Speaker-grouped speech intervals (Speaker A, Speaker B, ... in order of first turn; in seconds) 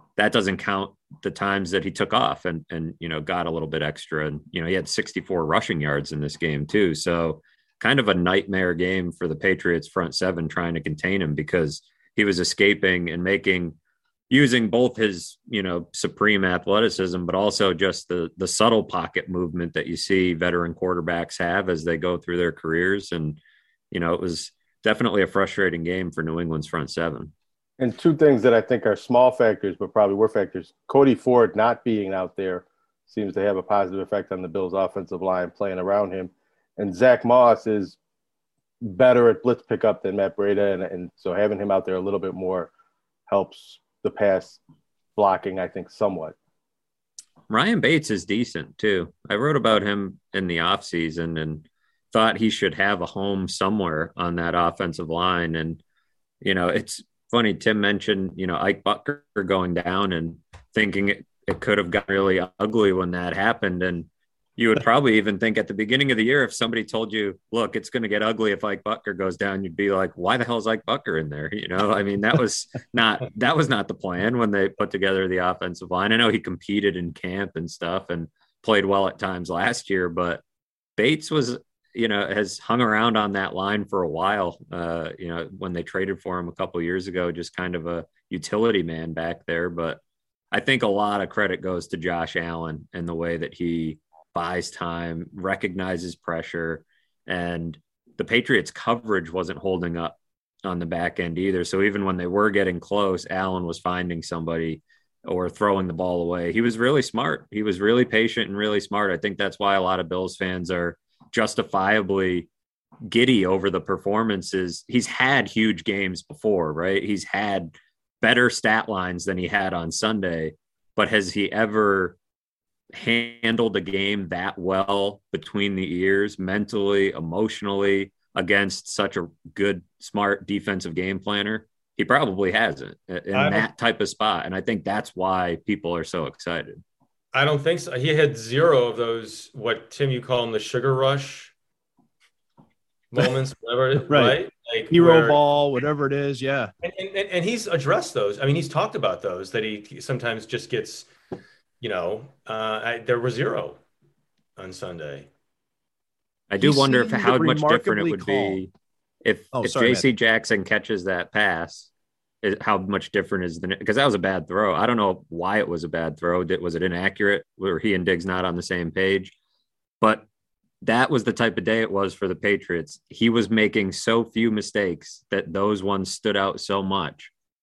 Speaker A: 0.2-13.8, 14.3-23.4, 23.9-27.3, 47.5-55.8, 56.4-80.4, 81.0-90.0, 90.5-112.5, 113.1-122.2, 122.9-136.8, 156.5-158.7, 159.2-161.9, 162.4-169.3, 170.8-177.3
Speaker B: 27.8-38.0, 38.8-42.7, 43.3-44.6, 45.1-46.4
Speaker C: 133.3-133.7, 137.3-141.5, 143.1-145.4, 146.8-151.1, 151.8-153.8, 154.6-155.3
Speaker D: 144.1-144.4, 144.9-146.7, 156.6-158.6, 159.5-160.1